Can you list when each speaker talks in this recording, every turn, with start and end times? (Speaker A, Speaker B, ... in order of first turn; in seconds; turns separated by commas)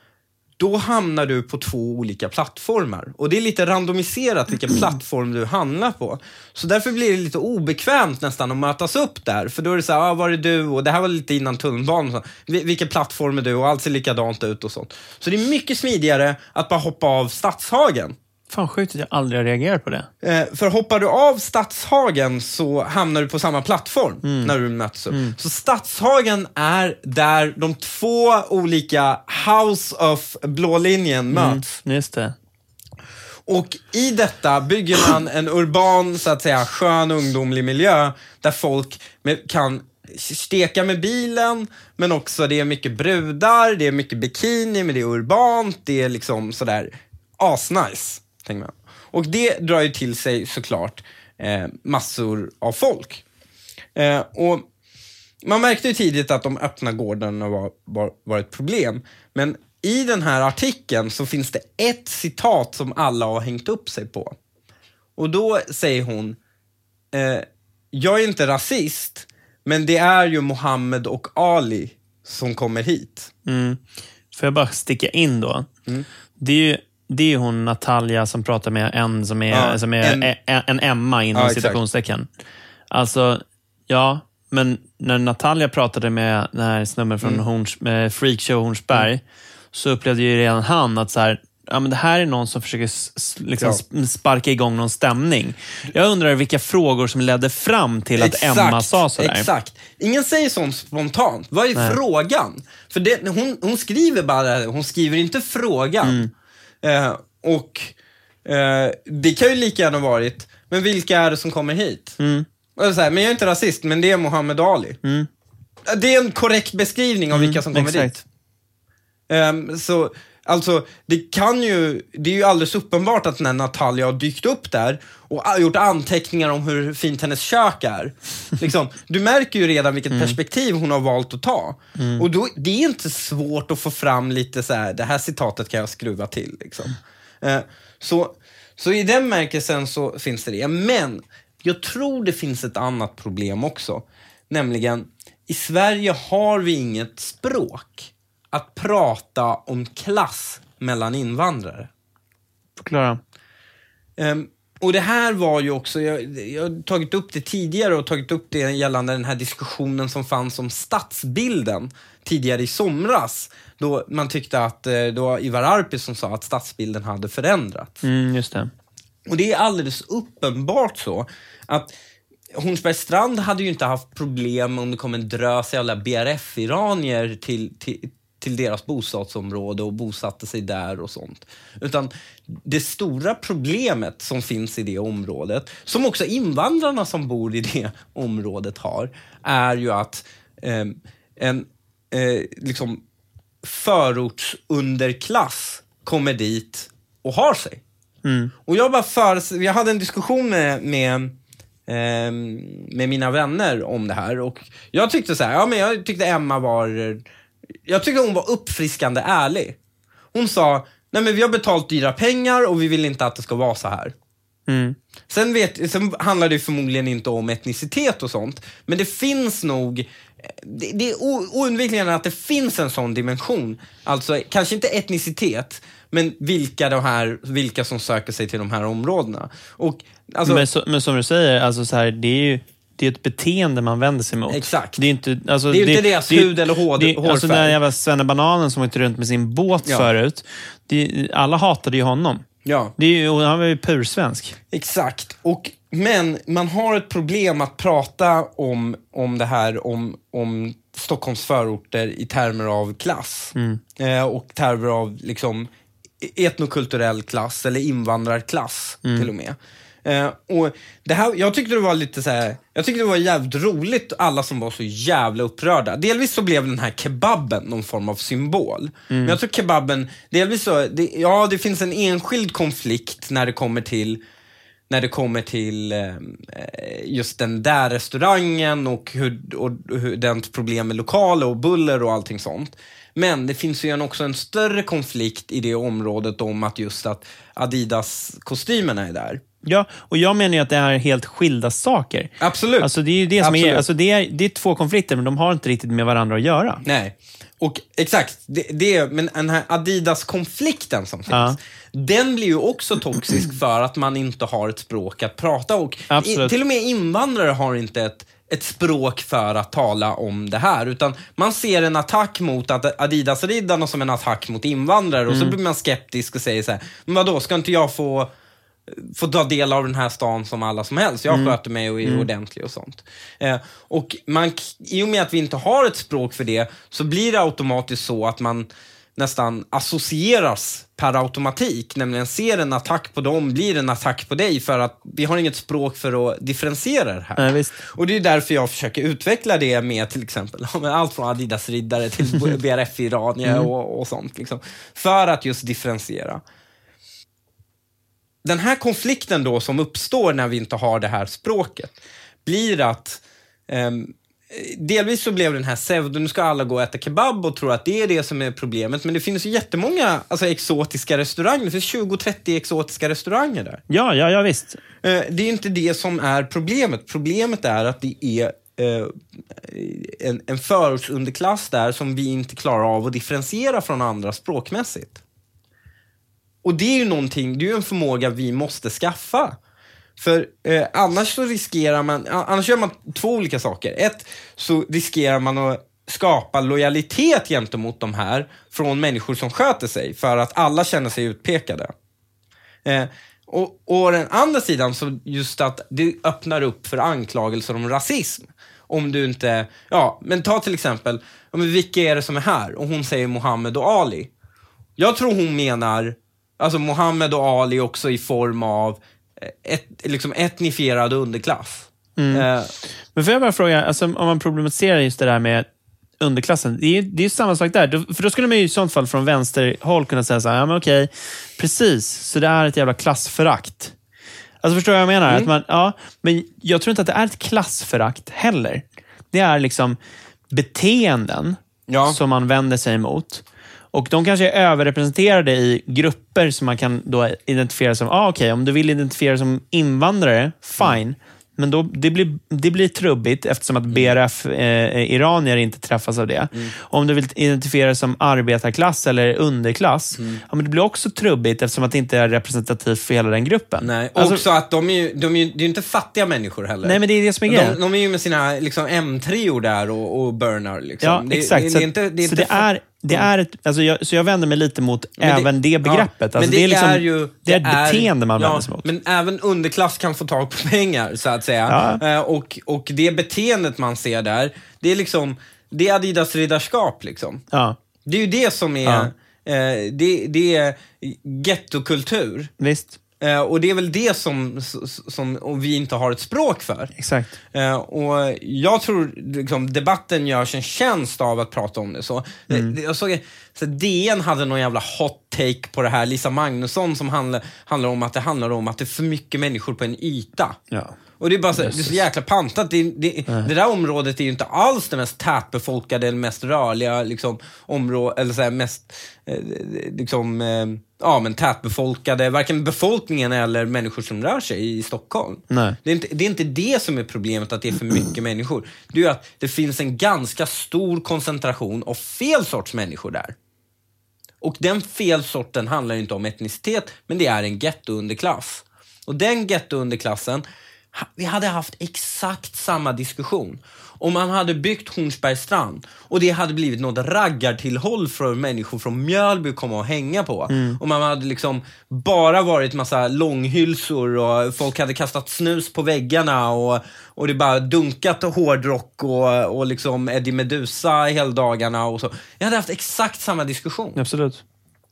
Speaker A: 0.6-18.1, Speaker B: 18.5-20.1, Speaker A: 20.2-31.7, Speaker B: 24.2-24.5, Speaker B: 25.1-25.4, Speaker B: 31.3-32.3, Speaker A: 33.5-53.2, Speaker A: 54.0-54.6, Speaker A: 55.4-64.3, Speaker A: 65.2-66.4, Speaker A: 67.1-73.3, Speaker B: 73.5-73.8, Speaker B: 74.3-75.7, Speaker B: 76.4-82.3, Speaker A: 79.5-80.3, Speaker A: 81.3-81.8, Speaker B: 82.9-89.2, Speaker B: 89.7-99.5, Speaker A: 98.2-106.3, Speaker B: 106.0-106.3, Speaker A: 106.8-107.9, Speaker A: 108.5-112.2, Speaker B: 112.2-112.5, Speaker A: 112.8-115.0, Speaker A: 115.9-118.2, Speaker B: 117.3-118.2, Speaker A: 119.3-151.9, Speaker B: 130.1-130.4, Speaker B: 132.0-132.2, Speaker B: 152.8-153.2, Speaker A: 154.2-167.9, Speaker B: 168.0-168.7, Speaker A: 169.3-171.9, Speaker A: 172.5-193.0, Speaker A: 193.6-197.8, Speaker B: 198.2-198.5, Speaker A: 198.6-201.3, Speaker A: 201.9-207.2, Speaker A: 207.9-209.8, Speaker A: 210.3-214.1, Speaker B: 214.7-214.9, Speaker A: 215.3-230.7, Speaker B: 230.4-242.4, Speaker A: 234.5-235.0, Speaker A: 235.7-237.8, Speaker A: 242.6-242.9, Speaker B: 243.0-244.6, Speaker A: 244.7-255.7, Speaker B: 253.5-253.8, Speaker A: 256.2-274.2, Speaker B: 269.1-269.4, Speaker A: 274.9-289.4, Speaker B: 289.6-296.8, Speaker A: 292.4-293.8, Speaker A: 296.8-318.3, Speaker B: 301.3-301.6, Speaker B: 306.1-306.6, Speaker B: 315.3-315.6, Speaker A: 318.9-346.4, Speaker B: 321.3-322.3, Speaker B: 337.4-337.8, Speaker B: 343.4-343.7, Speaker A: 348.4-363.8, Speaker B: 363.9-364.8, Speaker A: 365.0-375.2, Speaker A: 376.6-379.6, Speaker A: 380.2-391.9, Speaker A: 392.8-404.3, Speaker A: 405.0-412.7, Speaker B: 412.2-412.4, Speaker B: 413.1-415.6, Speaker B: 416.2-423.9, Speaker B: 424.6-430.0, Speaker B: 430.5-454.4, Speaker A: 431.9-432.2, Speaker A: 450.2-450.4, Speaker A: 453.8-463.3, Speaker B: 456.8-457.8, Speaker B: 461.0-468.9, Speaker A: 465.2-477.4, Speaker B: 471.7-472.0, Speaker B: 477.5-477.8, Speaker A: 478.0-482.5, Speaker B: 478.8-479.1, Speaker B: 482.6-483.0, Speaker A: 483.2-486.9, Speaker B: 486.9-487.3, Speaker A: 487.5-500.6, Speaker B: 492.5-492.8, Speaker A: 501.2-523.3, Speaker B: 501.6-502.0, Speaker B: 515.5-515.8, Speaker A: 524.4-554.0, Speaker B: 540.5-540.8, Speaker B: 554.0-554.4